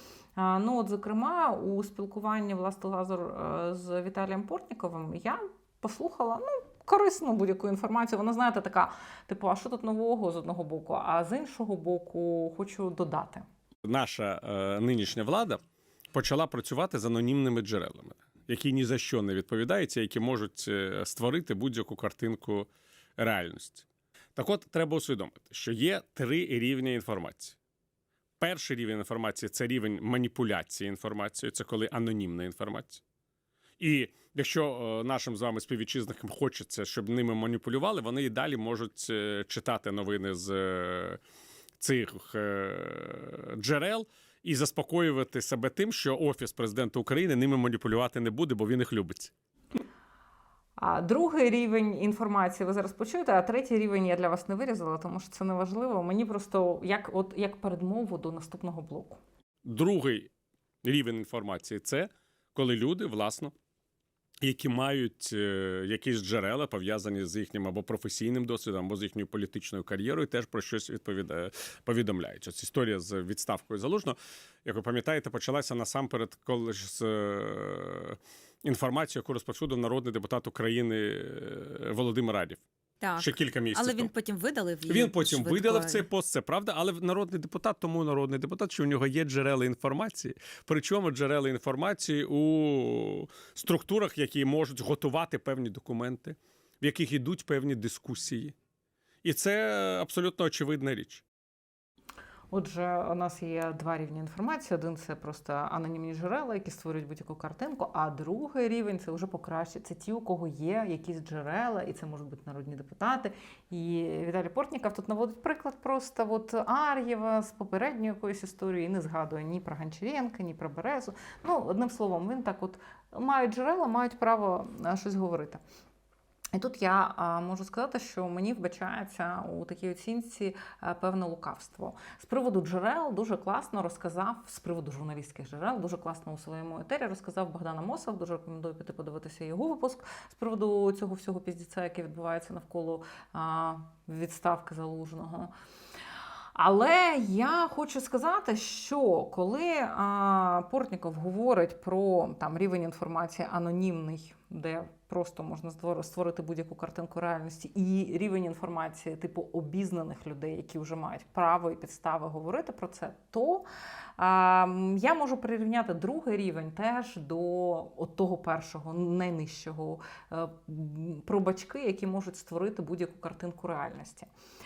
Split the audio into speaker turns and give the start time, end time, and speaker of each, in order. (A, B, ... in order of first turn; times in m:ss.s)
0:00.4-0:13.4 A
0:13.8-0:15.6 B
0:16.1-0:23.8 B
0:24.4-0:27.6 B
0:28.4-0:33.0 B
0:33.8-0:41.2 B
0:41.8-0:49.3 B
0:50.8-0:59.2 A
0:59.6-1:00.3 B
1:00.8-1:03.5 B
1:04.4-1:22.6 B
1:23.0-1:26.1 C
1:23.2-1:24.1 B
1:24.9-1:38.5 B
1:39.2-1:41.2 B
1:42.5-2:05.6 A
2:06.5-2:25.5 A
2:26.5-2:43.6 A
2:44.2-2:54.3 A